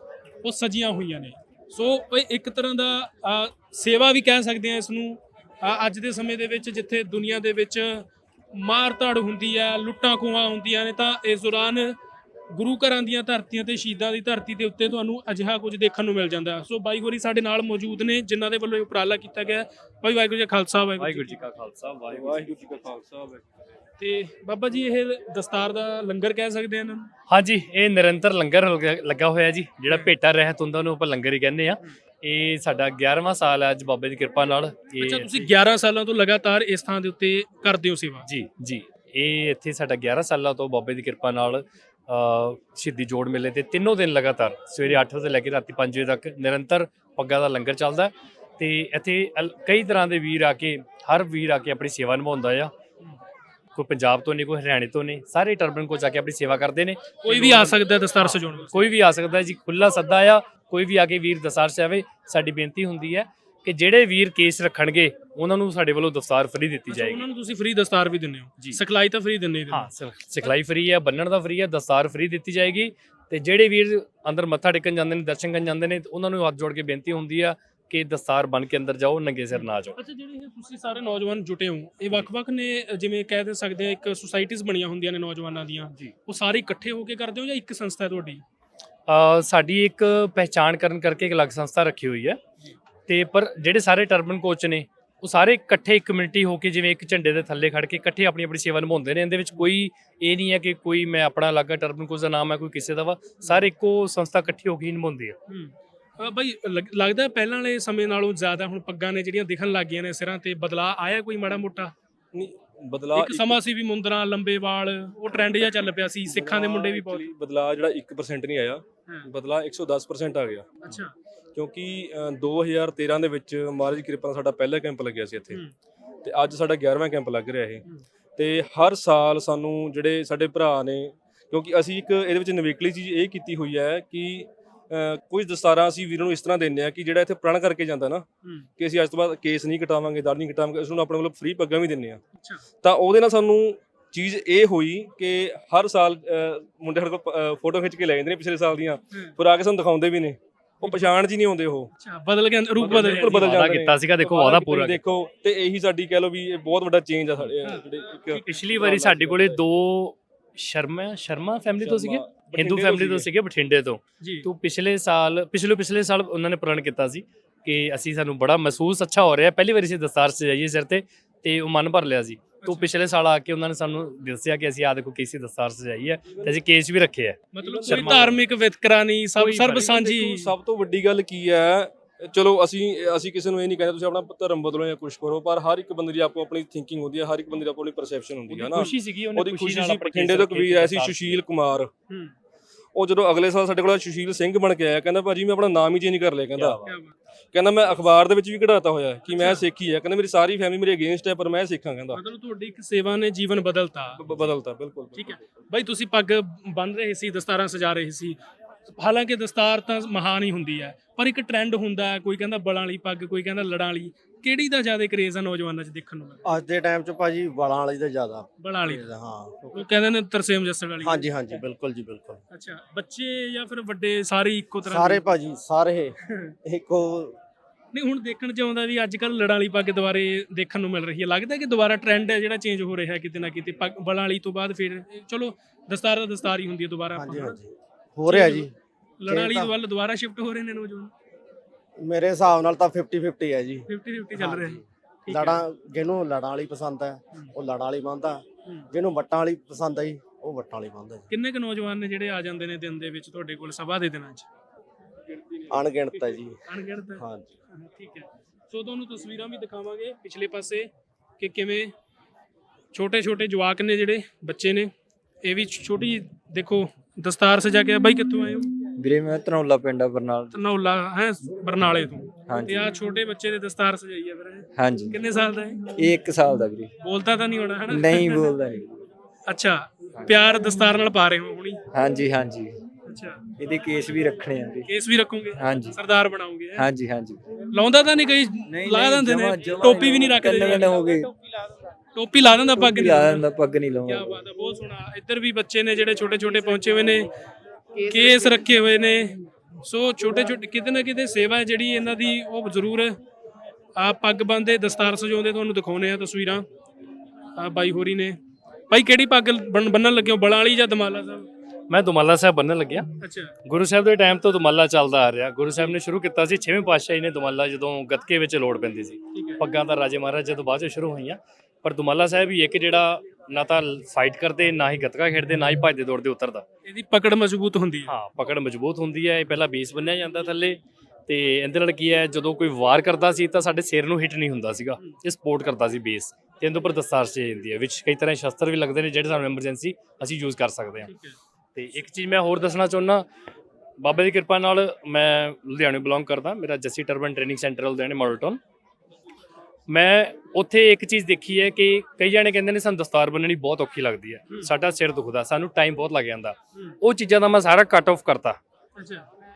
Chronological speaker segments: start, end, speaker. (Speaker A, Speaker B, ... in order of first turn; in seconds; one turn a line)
Speaker A: 0.4-12.0
Speaker A: 12.5-21.4
Speaker B: 21.0-22.5
Speaker C: 22.1-23.6
Speaker A: 24.0-27.1
Speaker B: 27.3-35.3
Speaker A: 35.0-38.3
Speaker B: 38.3-52.7
Speaker B: 53.8-67.2
Speaker A: 57.2-58.9
Speaker A: 66.9-70.5
Speaker B: 69.7-80.0
Speaker A: 79.6-88.4
Speaker B: 89.1-92.4
Speaker B: 93.1-105.4
Speaker A: 105.5-111.9
Speaker C: 112.3-113.6
Speaker A: 113.2-117.3
Speaker C: 116.3-120.9
Speaker A: 120.8-121.1
Speaker C: 121.5-125.6
Speaker C: 126.2-127.8
Speaker C: 128.4-138.3
Speaker C: 138.8-142.2
Speaker C: 142.8-151.9
Speaker A: 150.8-151.1
Speaker A: 152.0-153.5
Speaker C: 152.8-159.6
Speaker B: 153.2-155.0
Speaker B: 158.4-178.4
Speaker C: 161.8-163.3
Speaker A: 164.2-164.5
Speaker A: 172.6-172.9
Speaker A: 177.5-180.5
Speaker C: 177.6-178.4
Speaker B: 179.4-180.0
Speaker C: 179.7-191.9
Speaker B: 188.5-191.4
Speaker C: 193.0-196.8
Speaker B: 196.6-196.9
Speaker A: 196.9-197.1
Speaker C: 197.5-202.2
Speaker A: 199.3-199.6
Speaker A: 202.1-204.2
Speaker C: 204.2-205.5
Speaker A: 205.2-208.4
Speaker A: 209.0-216.4
Speaker D: 216.5-219.7
Speaker A: 218.6-219.1
Speaker A: 219.7-221.6
Speaker D: 221.0-222.4
Speaker A: 222.5-225.3
Speaker D: 224.9-226.1
Speaker A: 226.2-226.6
Speaker D: 226.7-227.4
Speaker A: 227.9-237.6
Speaker D: 237.2-238.7
Speaker A: 238.3-238.7
Speaker A: 239.2-241.1
Speaker D: 239.3-239.7
Speaker D: 242.0-251.2
Speaker A: 243.9-245.6
Speaker A: 251.3-254.5
Speaker A: 255.6-261.9
Speaker D: 255.7-256.6
Speaker D: 257.2-257.5
Speaker A: 262.9-264.9
Speaker A: 265.4-268.7
Speaker E: 269.0-270.6
Speaker A: 270.5-275.9
Speaker E: 272.5-272.9
Speaker E: 274.8-275.2
Speaker E: 276.0-276.9
Speaker A: 277.0-278.5
Speaker E: 277.9-279.0
Speaker A: 279.5-281.8
Speaker E: 281.9-282.8
Speaker A: 283.1-283.4
Speaker E: 283.6-284.9
Speaker A: 284.9-286.9
Speaker E: 285.6-286.0
Speaker E: 286.8-287.4
Speaker A: 287.7-291.0
Speaker E: 288.7-291.3
Speaker A: 292.1-293.4
Speaker E: 292.8-294.4
Speaker A: 294.1-297.3
Speaker A: 298.0-303.2
Speaker A: 304.0-306.7
Speaker A: 307.6-308.4
Speaker A: 308.9-311.5
Speaker B: 311.9-313.1
Speaker A: 313.2-313.6
Speaker B: 313.6-326.6
Speaker A: 319.3-319.6
Speaker A: 326.9-328.1
Speaker B: 328.1-341.1
Speaker A: 341.1-341.4
Speaker B: 341.8-343.2
Speaker B: 344.0-348.6
Speaker B: 349.9-358.6
Speaker A: 359.0-359.3